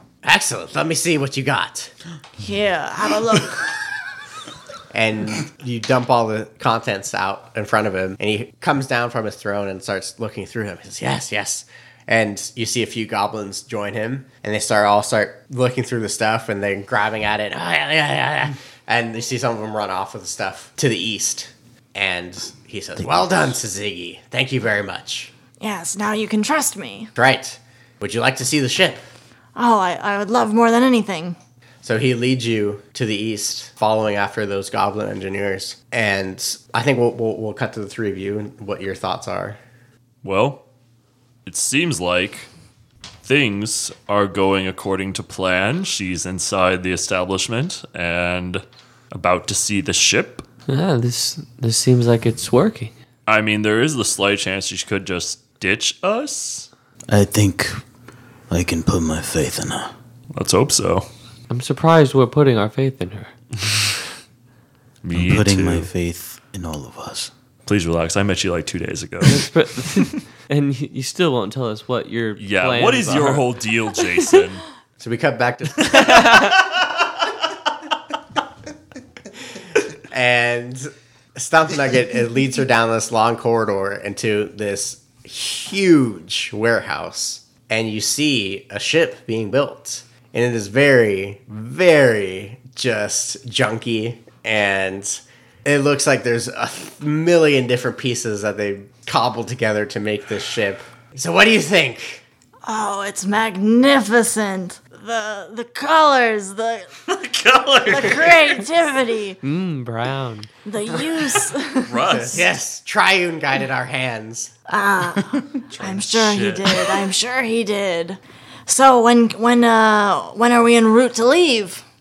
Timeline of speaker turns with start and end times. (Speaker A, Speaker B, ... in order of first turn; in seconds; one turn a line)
Speaker A: 0.2-1.9
Speaker B: 2.4-3.8
Speaker A: 4.9-25.3
Speaker B: 25.6-27.1
Speaker A: 27.2-29.0
Speaker B: 29.6-31.4
Speaker A: 31.8-39.6
Speaker C: 40.2-40.6
Speaker C: 41.5-42.5
Speaker C: 43.2-50.5
Speaker D: 50.7-52.9
Speaker C: 53.3-56.7
Speaker E: 57.1-57.8
Speaker E: 58.5-59.9
Speaker C: 60.3-61.1
Speaker D: 61.5-63.3
Speaker C: 65.0-65.9
Speaker E: 65.1-67.3
Speaker C: 67.7-69.5
Speaker D: 69.2-73.5
Speaker C: 72.4-74.6
Speaker A: 75.0-76.3
Speaker C: 75.8-76.5
Speaker D: 76.0-76.5
Speaker A: 80.1-102.2
Speaker B: 102.7-106.9
Speaker C: 107.1-108.6
Speaker B: 107.8-109.4
Speaker D: 109.4-110.5
Speaker B: 110.7-112.0
Speaker C: 111.3-112.5
Speaker A: 112.1-114.5
Speaker B: 114.7-121.8
Speaker C: 115.7-117.1